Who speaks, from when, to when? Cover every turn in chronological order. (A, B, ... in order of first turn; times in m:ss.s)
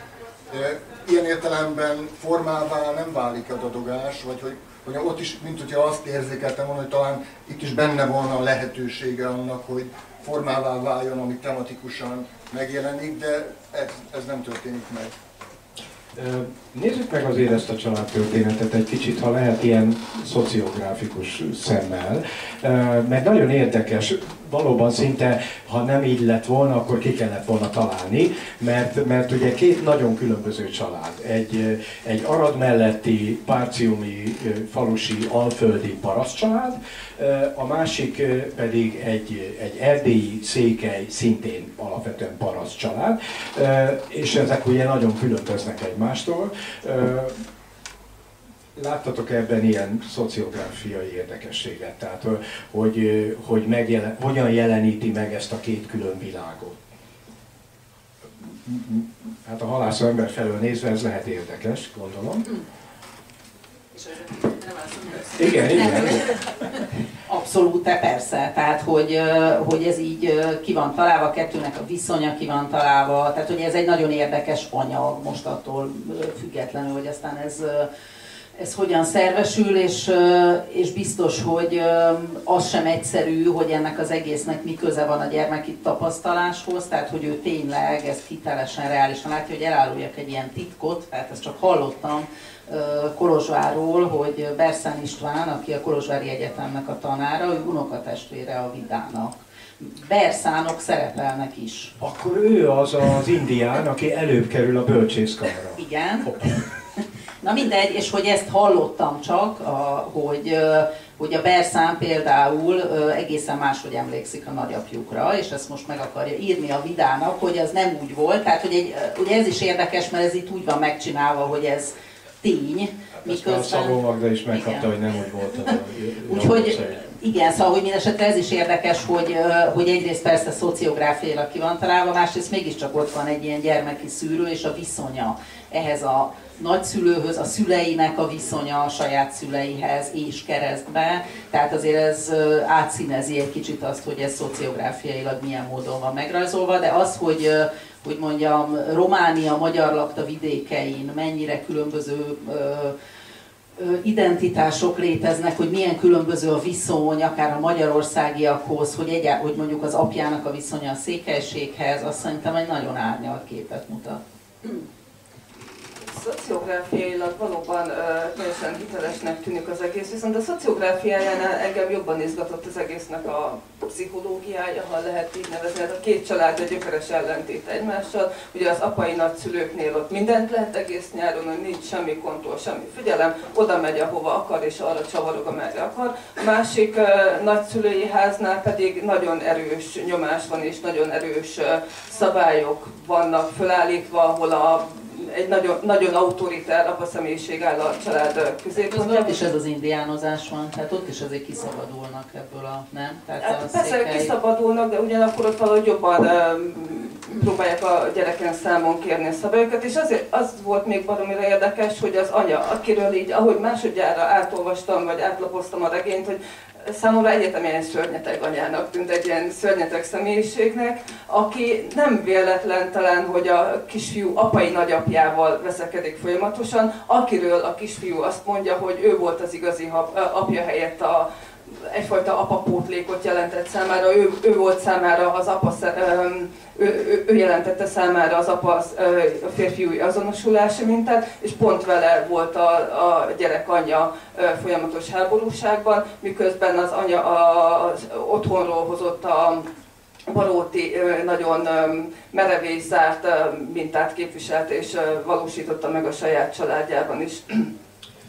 0:00.5-0:15.1 A
0:16.2-0:47.4 B
0:48.8-0:56.8 B
0:58.6-1:02.5 B
1:03.9-1:17.9 C
1:05.3-1:06.4 B
1:18.6-1:41.9 C
1:42.0-1:46.5 B
1:45.8-1:46.6 C
1:47.4-2:04.0 C
2:03.2-2:07.0 B
2:04.5-2:04.9 C
2:06.3-2:32.9 C
2:33.8-2:44.2 C
2:46.1-3:19.4 D
3:18.8-3:24.3 C
3:23.4-4:09.7 D
4:10.3-4:17.7 D